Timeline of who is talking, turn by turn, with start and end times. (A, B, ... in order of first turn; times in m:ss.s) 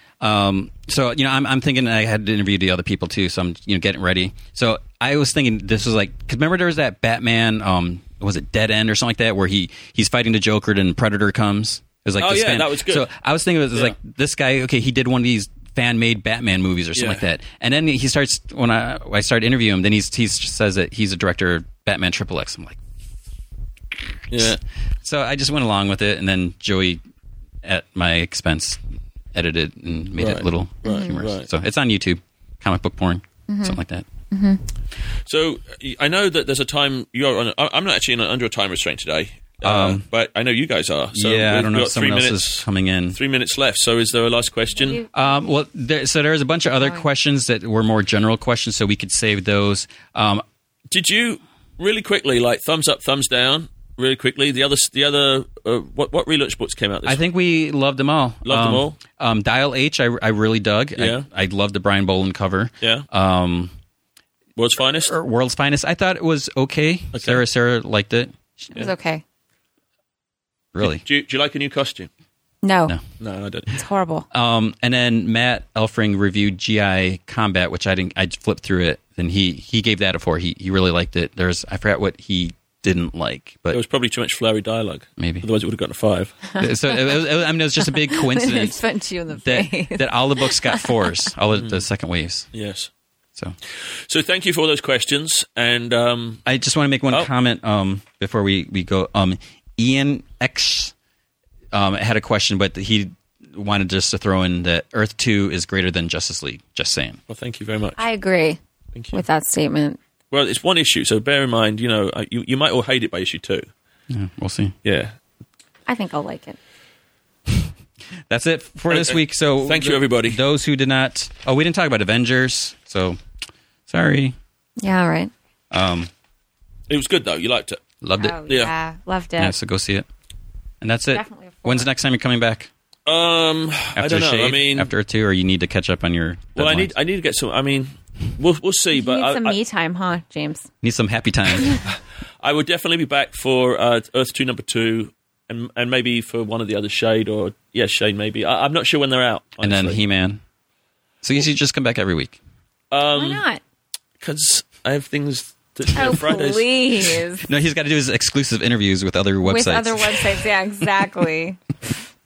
0:00.2-0:22.8 A
0:12.2-0:13.1 B
0:17.0-0:17.2 B
0:24.3-0:24.6 B
0:24.3-0:27.0 A
0:27.6-0:28.8 A
0:29.3-0:34.0 A
0:30.2-0:31.5 B
0:30.8-0:31.1 C
0:33.5-0:33.8 C
0:34.3-0:34.6 C
0:35.2-0:45.0 B
0:39.6-0:40.0 A
0:41.1-0:43.2 A
0:44.9-0:45.3 C
0:45.1-0:50.4 A
0:46.8-0:47.0 C
0:50.9-0:57.2 B
0:57.0-1:03.7 A
0:58.4-0:59.0 B
1:01.0-1:01.3 B
1:02.8-1:03.1 B
1:04.6-1:05.1 B
1:05.0-1:08.3 A
1:07.1-1:07.4 B
1:08.7-1:09.2 C
1:10.7-1:11.0 A
1:10.8-1:12.1 B
1:12.6-1:13.0 C
1:13.2-1:13.7 B
1:13.7-1:14.3 C
1:14.3-1:23.8 A
1:23.7-1:26.4 B
1:25.2-1:25.5 A
1:26.5-1:27.2 C
1:26.6-1:28.8 A
1:27.8-1:31.1 C
1:29.4-1:32.5 A
1:31.5-1:31.8 B
1:32.5-1:32.9 B
1:34.1-1:36.4 B
1:36.4-1:40.9 A
1:41.7-1:47.2 A
1:47.3-1:48.0 B
1:48.0-1:48.6 C
1:48.9-1:49.2 B
1:49.1-1:50.0 C
1:50.3-1:53.7 B
1:54.1-1:54.8 A
1:54.8-1:55.1 B
1:55.9-1:56.6 C
1:58.3-2:03.2 A
1:58.9-2:00.4 B
2:03.9-2:04.4 A
2:04.8-2:05.3 C
2:05.7-2:06.1 A
2:06.9-2:07.8 B
2:08.0-2:08.4 A
2:08.2-2:09.6 C
2:09.4-2:10.1 A
2:10.8-2:12.7 A
2:11.1-2:11.9 C
2:13.1-2:14.9 B
2:14.0-2:16.9 A
2:16.6-2:19.6 B
2:18.9-2:20.7 C
2:20.8-2:21.8 A
2:22.4-2:30.0 B
2:29.6-2:30.4 A
2:31.2-2:32.4 A
2:32.9-2:33.4 B
2:33.1-2:33.6 C
2:34.2-2:36.7 B
2:36.0-2:37.5 C
2:37.4-2:40.4 A
2:39.4-2:41.6 C